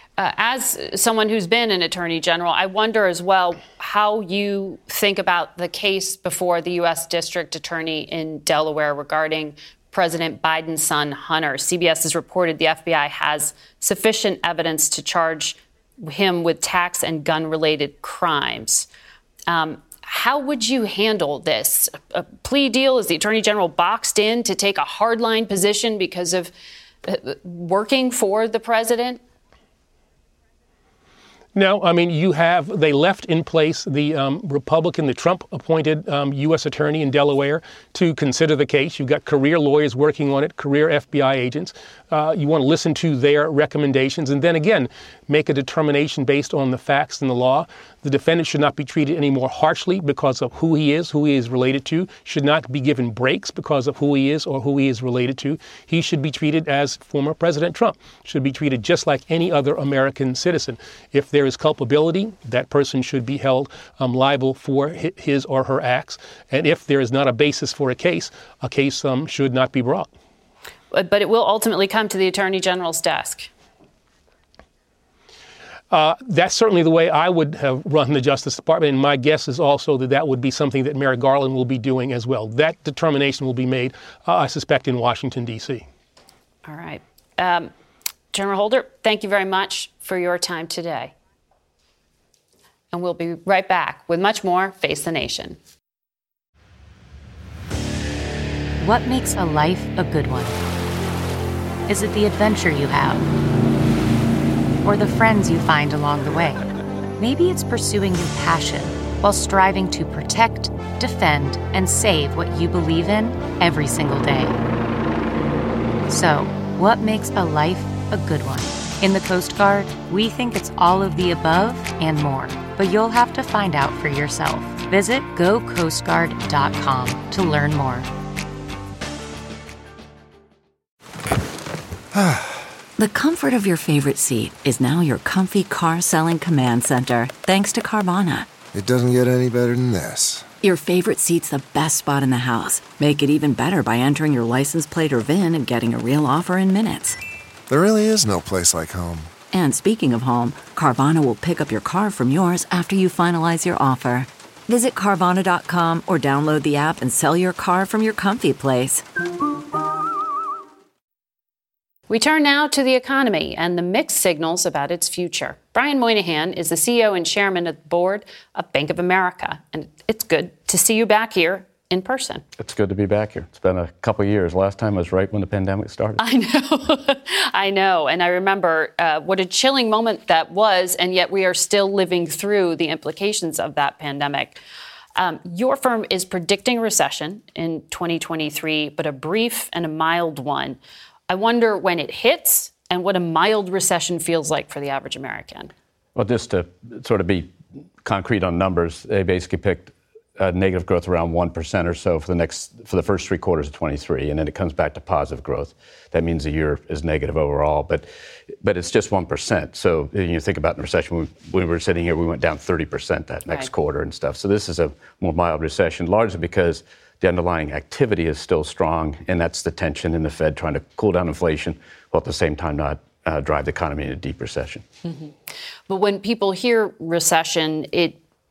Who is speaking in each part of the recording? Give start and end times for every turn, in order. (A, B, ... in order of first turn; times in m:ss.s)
0:00.2-0:18.9 A
0:19.5-0:26.5 A
0:27.0-0:29.2 A
0:31.6-1:10.1 B
1:10.9-1:13.5 A
1:15.9-1:25.9 B
1:26.7-1:27.7 A
1:28.3-1:31.1 A
1:32.9-1:35.6 A
1:38.8-1:40.6 C
1:41.9-1:43.3 C
1:44.8-1:46.6 C
1:47.2-1:54.6 C
1:56.1-2:08.1 C
2:12.1-2:12.7 D
2:13.0-2:18.5 E
2:18.7-2:20.5 D
2:20.6-2:27.2 E
2:27.7-2:29.3 D
2:29.5-2:39.0 E
2:42.1-2:52.4 A
2:52.6-2:56.2 F
2:56.2-3:04.6 A
3:05.2-3:10.8 A
3:11.3-3:15.7 A
3:16.2-3:28.1 F
3:28.6-3:44.8 F
3:45.0-3:45.3 A
3:45.9-3:48.2 A